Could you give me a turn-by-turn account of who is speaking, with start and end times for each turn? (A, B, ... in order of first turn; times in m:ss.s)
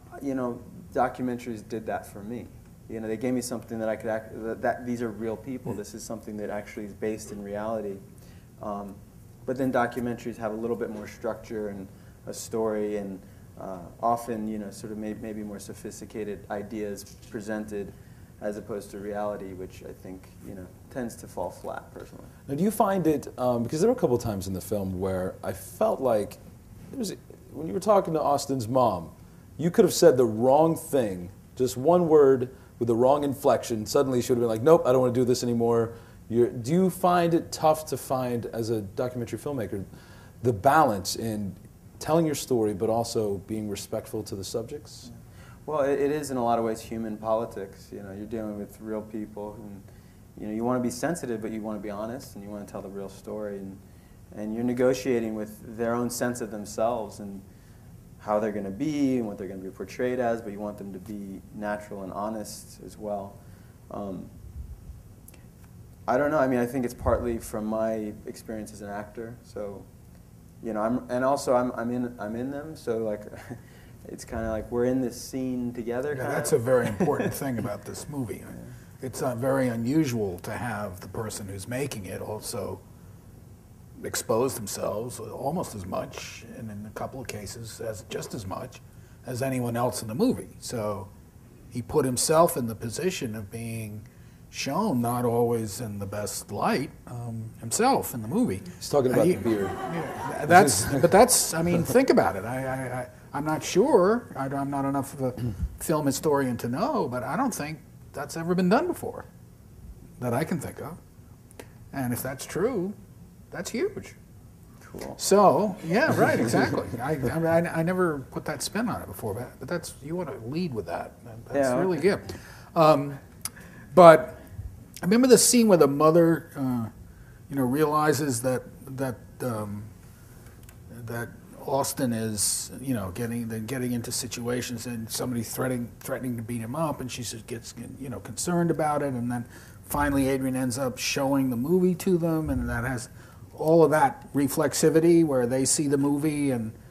0:00.2-0:08.0 A
0:08.6-0:22.3 A
0:22.5-0:26.4 B
0:26.9-0:39.8 B
0:40.4-0:45.1 B
0:45.7-0:49.8 A
0:50.4-0:53.8 A
0:54.3-0:57.4 A
0:58.2-1:03.4 A
1:03.9-1:04.3 A
1:06.1-1:09.9 A
1:10.6-1:17.2 A
1:16.1-1:22.8 C
1:24.0-1:31.1 C
1:31.7-1:49.3 C
1:38.8-1:39.8 B
1:40.5-1:41.0 B
1:50.2-1:51.0 C
1:51.9-1:53.0 C
1:53.5-1:54.2 C
1:54.8-1:55.2 A
1:55.2-2:03.2 C
2:01.5-2:02.0 A
2:03.9-2:04.4 C
2:05.0-2:06.9 C
2:07.5-2:09.9 C
2:10.9-2:26.8 C